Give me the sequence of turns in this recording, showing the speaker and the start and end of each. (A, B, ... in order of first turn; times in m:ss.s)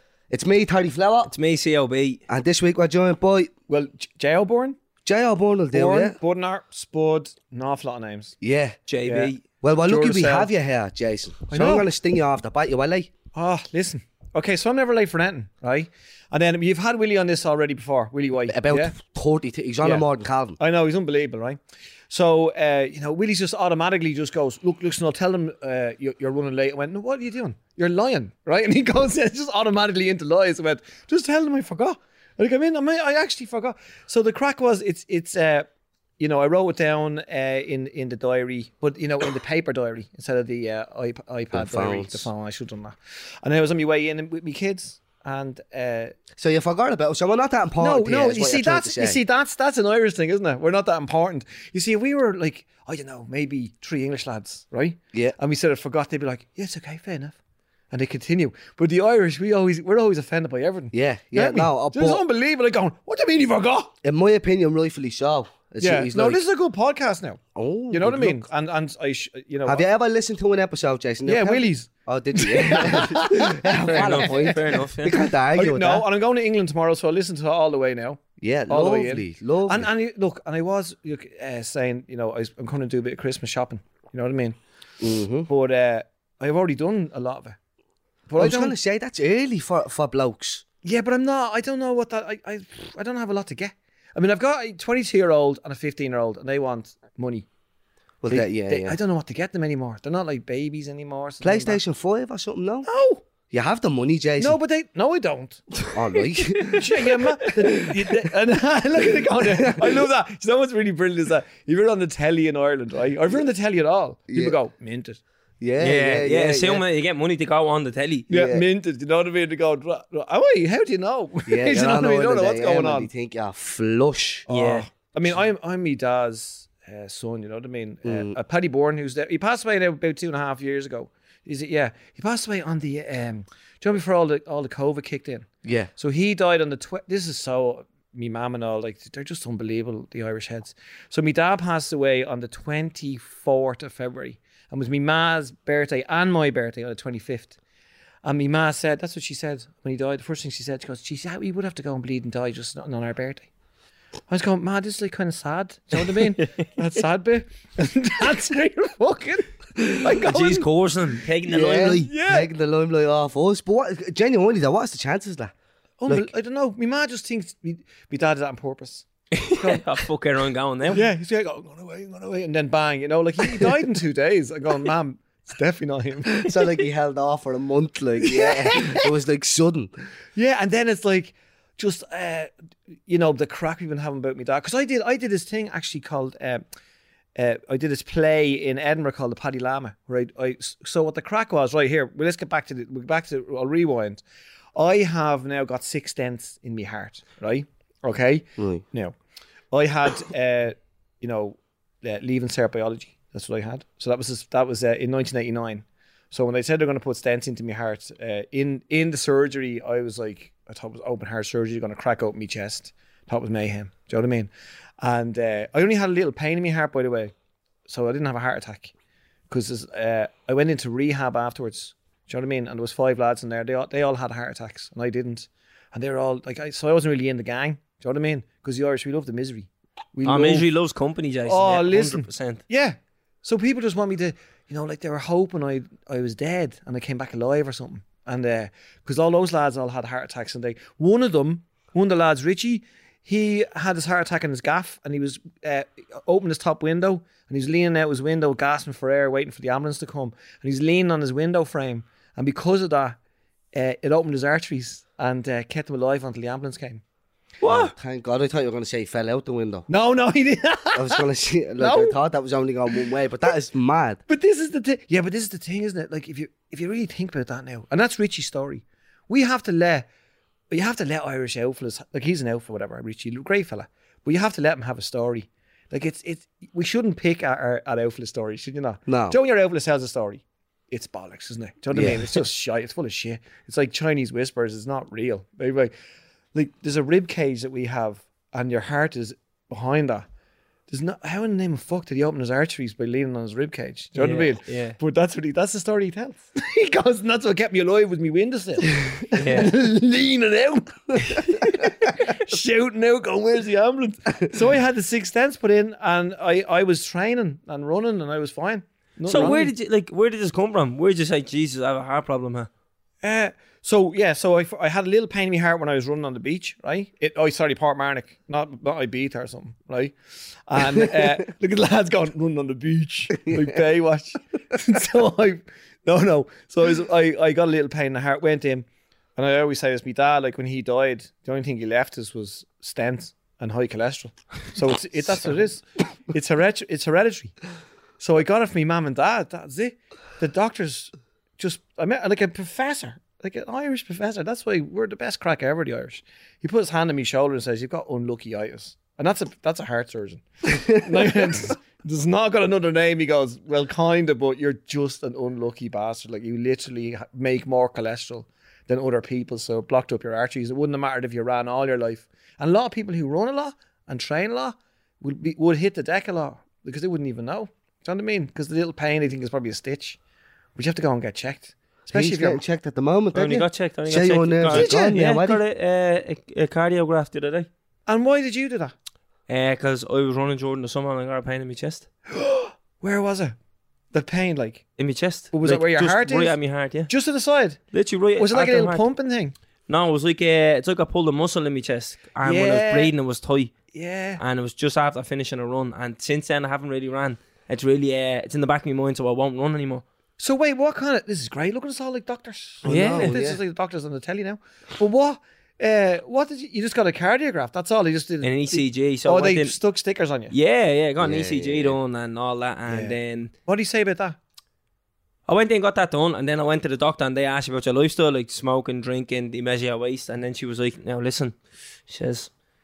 0:00.3-0:01.3 A
0:01.3-0:02.2 B
0:02.3-0:03.5 A
0:03.7-0:04.8 C
0:05.0-0:06.2 A
0:05.7-0:08.4 C
0:08.4-0:08.8 A
0:08.9-0:09.4 B
0:09.0-0:10.5 C
0:09.6-0:13.1 A
0:11.5-0:11.9 C
0:13.3-0:18.9 C
0:18.5-0:20.6 A
0:20.6-0:21.6 C
0:22.1-0:35.7 C
0:36.2-0:46.1 C
0:41.5-0:42.3 A
0:46.4-0:49.2 A
0:47.8-0:57.4 C
0:57.9-1:03.9 C
1:00.9-1:02.2 A
1:04.0-1:06.4 A
1:05.8-1:09.8 C
1:07.5-1:08.4 A
1:09.6-1:16.0 A
1:11.2-1:14.7 C
1:13.9-1:15.2 B
1:15.5-1:24.6 C
1:18.4-1:19.9 A
1:25.0-1:25.5 A
1:25.5-1:27.6 C
1:28.3-1:28.7 C
1:28.4-1:30.6 A
1:30.8-1:37.4 C
1:38.2-1:39.0 A
1:38.3-1:41.8 C
1:41.4-1:42.9 A
1:42.9-1:43.2 C
1:43.5-1:44.6 A
1:44.4-1:45.6 C
1:45.9-1:47.0 A
1:46.5-1:55.2 C
1:49.6-1:50.0 A
1:54.3-1:54.5 A
1:55.6-1:56.8 A
1:55.8-1:58.3 B
1:58.3-1:58.6 A
1:58.3-2:03.1 C
2:01.5-2:04.5 A
2:04.5-2:27.6 C
2:04.5-2:04.8 B
2:08.0-2:08.4 A
2:15.6-2:15.9 A
2:28.2-2:33.5 C
2:34.3-2:40.7 C
2:36.1-2:36.6 B
2:40.0-2:42.1 B
2:41.4-2:45.5 A
2:42.0-2:42.5 C
2:46.0-2:49.8 C
2:49.3-2:51.0 B
2:50.9-2:56.5 C
2:56.4-2:59.9 A
2:58.2-2:59.1 C
3:00.4-3:02.5 C
3:03.1-3:06.6 C
3:07.4-3:14.2 C
3:14.7-3:19.1 C
3:18.6-3:18.8 A
3:19.7-3:34.5 C
3:35.0-3:37.3 C
3:37.9-3:38.9 C
3:39.5-3:50.6 C
3:50.2-3:52.6 B
3:51.4-4:13.2 C
4:13.7-4:17.0 C
4:17.6-4:17.9 B
4:17.6-4:19.9 A
4:19.9-4:21.2 C
4:20.9-4:24.2 A
4:21.8-4:22.2 C
4:24.3-4:30.1 C
4:30.7-4:45.9 C
4:39.1-4:39.4 A
4:41.9-4:42.4 A
4:46.5-4:50.2 C
4:50.9-5:09.7 C
4:54.1-4:55.0 B
4:59.3-4:59.7 B
5:09.3-5:12.7 B
5:13.2-5:20.1 C
5:20.7-5:37.5 C
5:21.0-5:21.3 A
5:23.5-5:23.7 A
5:38.2-6:10.2 C
6:10.8-6:12.6 C
6:12.1-6:15.6 A
6:13.3-6:17.7 B
6:14.7-6:15.2 C
6:18.1-6:18.9 C
6:19.5-6:22.1 B
6:22.3-6:23.5 C
6:24.1-6:24.8 C
6:25.0-6:27.1 B
6:25.5-6:27.8 C
6:27.9-6:29.0 B
6:28.4-6:29.5 C
6:29.9-6:33.8 B
6:32.4-6:33.1 C
6:33.9-6:34.4 C
6:34.4-6:40.0 B
6:40.4-6:50.5 C
6:42.8-6:43.6 A
6:42.8-6:43.3 B
6:48.4-6:49.7 B
6:50.5-6:53.5 B
6:51.2-6:52.0 A
6:52.9-6:54.4 C
6:55.5-7:01.5 B
7:02.1-7:02.5 B